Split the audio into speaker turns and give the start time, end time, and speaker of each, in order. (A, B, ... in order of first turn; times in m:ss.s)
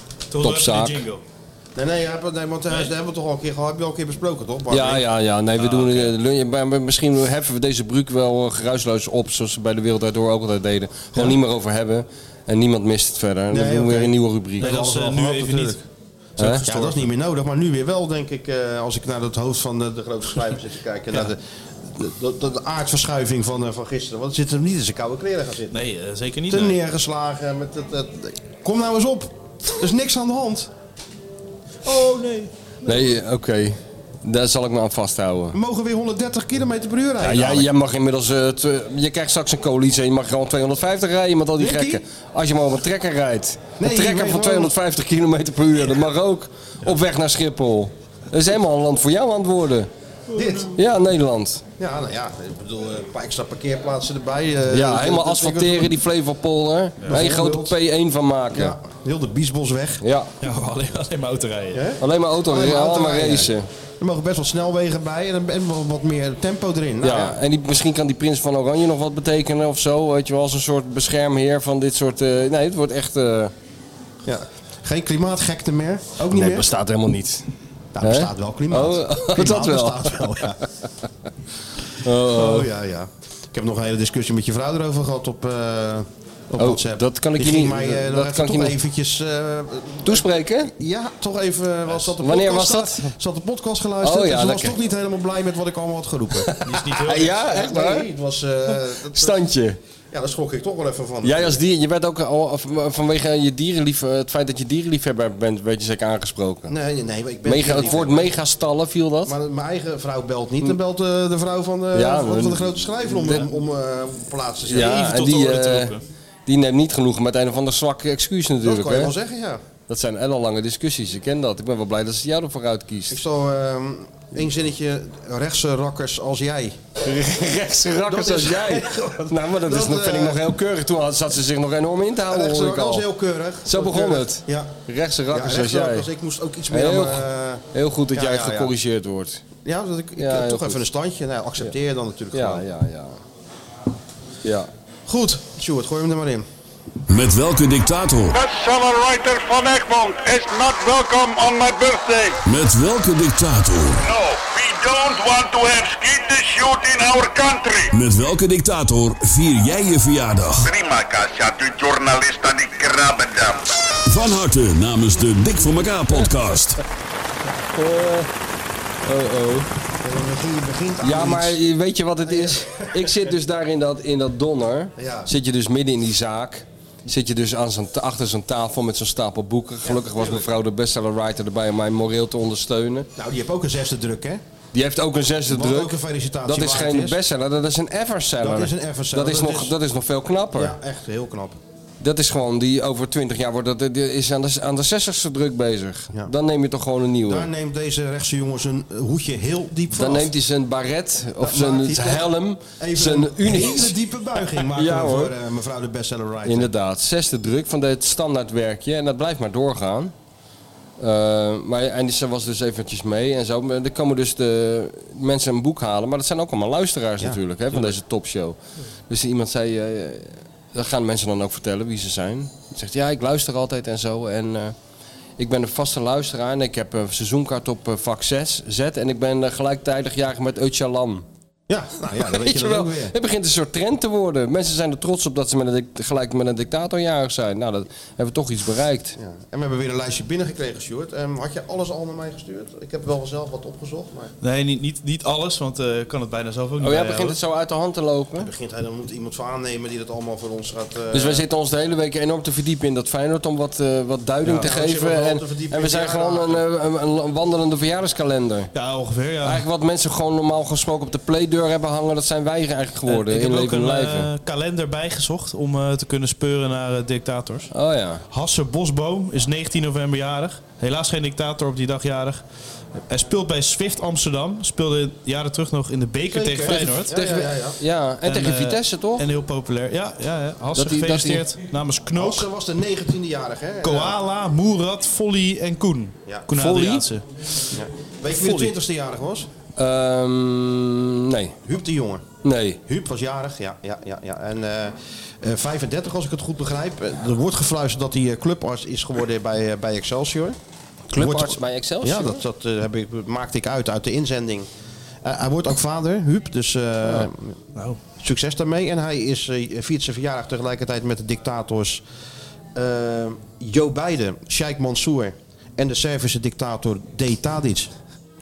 0:00.3-0:01.2 A
0:00.4-0:01.0 B
0:01.8-0:05.0 C
0:04.7-0:14.7 B
0:05.6-0:06.1 A
0:13.5-0:15.8 C
0:14.6-0:15.8 A
0:16.4-0:16.6 B
0:16.4-0:17.1 A
0:16.6-0:25.8 C
0:25.7-0:26.8 A
0:26.5-0:30.7 C
0:31.8-0:32.5 A
0:32.8-0:35.6 B
0:35.5-0:37.7 C
0:37.2-0:49.9 B
0:41.6-0:42.0 C
0:43.8-0:44.7 C
0:50.3-0:50.6 A
0:50.3-0:50.7 C
0:50.7-0:51.6 B
0:51.8-0:56.0 C
0:54.7-0:58.8 B
0:57.1-0:57.8 C
0:58.5-1:00.0 C
1:00.0-1:00.3 B
1:00.4-1:01.8 A
1:01.7-1:07.4 C
1:02.0-1:03.7 B
1:07.0-1:13.5 B
1:14.2-1:16.7 C
1:16.3-1:17.4 B
1:17.9-1:20.6 C
1:18.0-1:20.4 B
1:22.0-1:22.7 B
1:22.2-1:36.5 C
1:26.6-1:28.8 B
1:30.0-1:30.7 B
1:32.2-1:33.1 B
1:34.0-1:34.8 B
1:36.4-1:38.1 B
1:36.6-1:37.6 A
1:37.4-1:39.4 C
1:39.1-1:39.8 B
1:40.1-1:41.6 C
1:41.2-1:46.7 B
1:46.7-1:48.3 C
1:47.4-1:49.3 B
1:49.2-1:55.2 C
1:51.9-1:53.1 B
1:54.6-1:55.9 B
1:54.7-1:56.0 A
1:56.5-1:59.1 B
1:58.6-1:59.6 C
1:59.9-2:03.2 B
2:03.1-2:06.8 C
2:07.0-2:13.1 B
2:08.0-2:10.4 C
2:12.3-2:14.7 C
2:13.6-2:16.1 B
2:15.3-2:18.7 C
2:16.7-2:19.4 B
2:19.6-2:22.6 C
2:20.2-2:20.8 B
2:22.3-2:23.2 B
2:25.1-2:26.4 C
2:27.1-2:28.3 D
2:28.3-2:32.4 E
2:32.4-2:34.0 D
2:34.0-2:37.9 E
2:37.9-2:40.7 D
2:40.6-2:43.7 E
2:44.1-2:46.8 D
2:47.7-2:48.3 B
2:49.0-2:49.7 B
2:50.0-2:51.6 C
2:51.0-3:03.1 B
2:52.2-2:53.3 C
2:55.0-2:55.3 C
2:59.8-3:00.5 C
3:03.2-3:04.4 C
3:04.7-3:10.8 B
3:05.5-3:07.2 C
3:08.4-3:09.7 C
3:10.5-3:11.6 C
3:12.0-3:17.5 B
3:17.2-3:20.3 C
3:19.9-3:23.9 B
3:21.4-3:26.7 C
3:24.7-3:25.3 B
3:26.4-3:30.1 B
3:31.0-3:38.6 B
3:37.2-3:37.8 C
3:39.1-3:44.7 B
3:45.4-3:51.2 B
3:51.7-3:53.1 C
3:52.2-3:59.2 B
3:59.2-4:04.3 C
4:04.4-4:07.4 A
4:06.8-4:08.5 B
4:08.4-4:11.4 C
4:11.1-4:18.7 B
4:14.6-4:16.6 C
4:18.7-4:19.6 A
4:19.4-4:24.3 B
4:23.1-4:27.7 A
4:27.7-4:28.2 B
4:28.3-4:32.4 A
4:33.1-4:37.1 A
4:36.3-4:37.8 C
4:37.1-4:39.2 B
4:38.2-4:42.5 A
4:40.7-4:41.4 B
4:42.1-4:44.2 C
4:43.8-4:47.2 A
4:46.5-4:47.1 B
4:47.7-4:49.5 C
4:48.3-4:48.7 B
4:49.8-4:51.6 B
4:51.6-4:52.2 C
4:52.4-4:52.8 B
4:52.8-5:00.6 C
5:01.1-5:02.4 B
5:01.1-5:04.7 C
5:05.2-5:07.5 C
5:08.2-5:12.0 C
5:12.7-5:17.9 C